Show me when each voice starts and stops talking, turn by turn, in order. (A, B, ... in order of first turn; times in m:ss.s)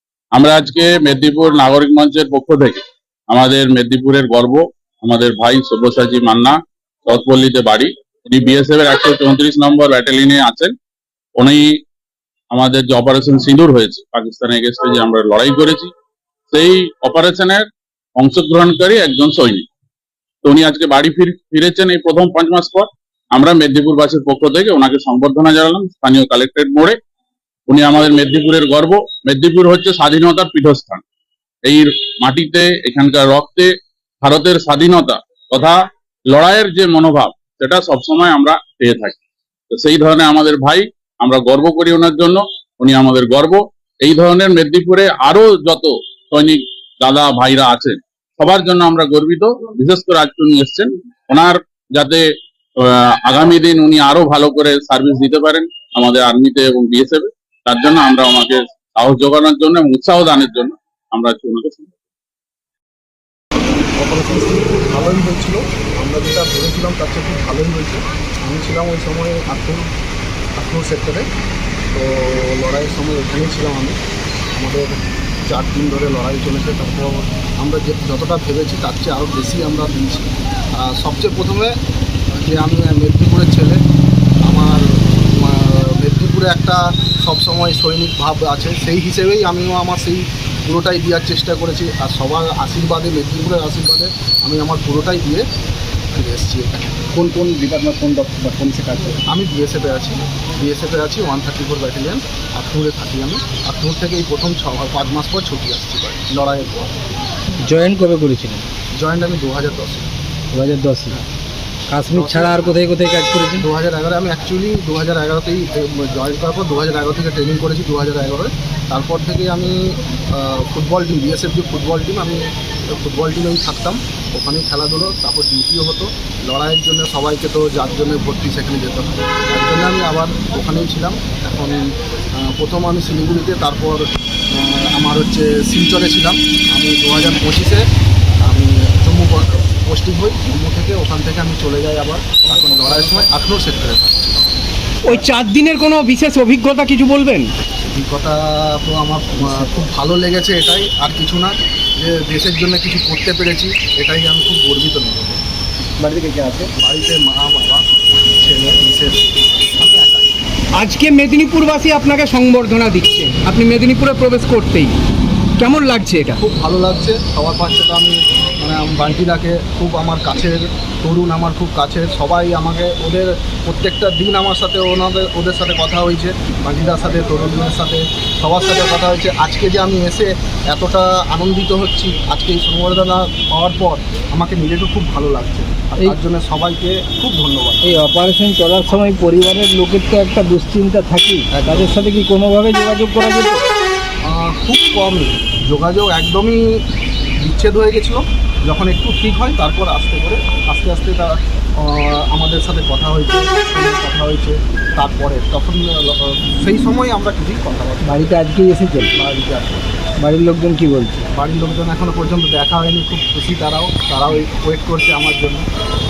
0:00.3-0:10.7 A
0:11.4-0:11.7 A
0:12.5-0:15.9 A
0:16.5-0:19.6 A
0:20.4-0:27.0 A
0:27.7-0:31.0 A
0:31.6-0:39.2 A
0:39.7-0:52.2 A
0:52.8-1:01.9 A
1:04.0-1:09.9 B
1:10.6-1:11.2 B
1:11.9-1:14.0 B
1:14.5-1:21.7 B
1:22.3-1:23.8 B
1:24.4-1:35.4 B
1:36.1-1:37.1 B
1:37.1-1:39.2 C
1:39.3-1:47.0 B
1:47.6-1:48.6 C
1:49.0-1:50.1 B
1:50.5-1:51.2 C
1:51.9-1:53.6 C
1:52.1-1:52.8 B
1:53.6-2:17.8 B
2:18.5-2:24.4 B
2:25.0-2:27.5 D
2:27.9-2:35.4 B
2:36.0-2:36.7 C
2:36.8-2:37.8 B
2:38.4-2:39.2 B
2:39.8-2:40.4 B
2:40.8-2:44.9 D
2:45.6-2:46.4 D
2:46.4-3:07.8 B
3:08.1-3:13.6 C
3:14.3-3:16.8 B
3:17.4-3:28.4 B
3:28.0-3:29.1 C
3:29.1-3:29.8 B
3:30.2-3:31.2 C
3:31.3-3:35.7 B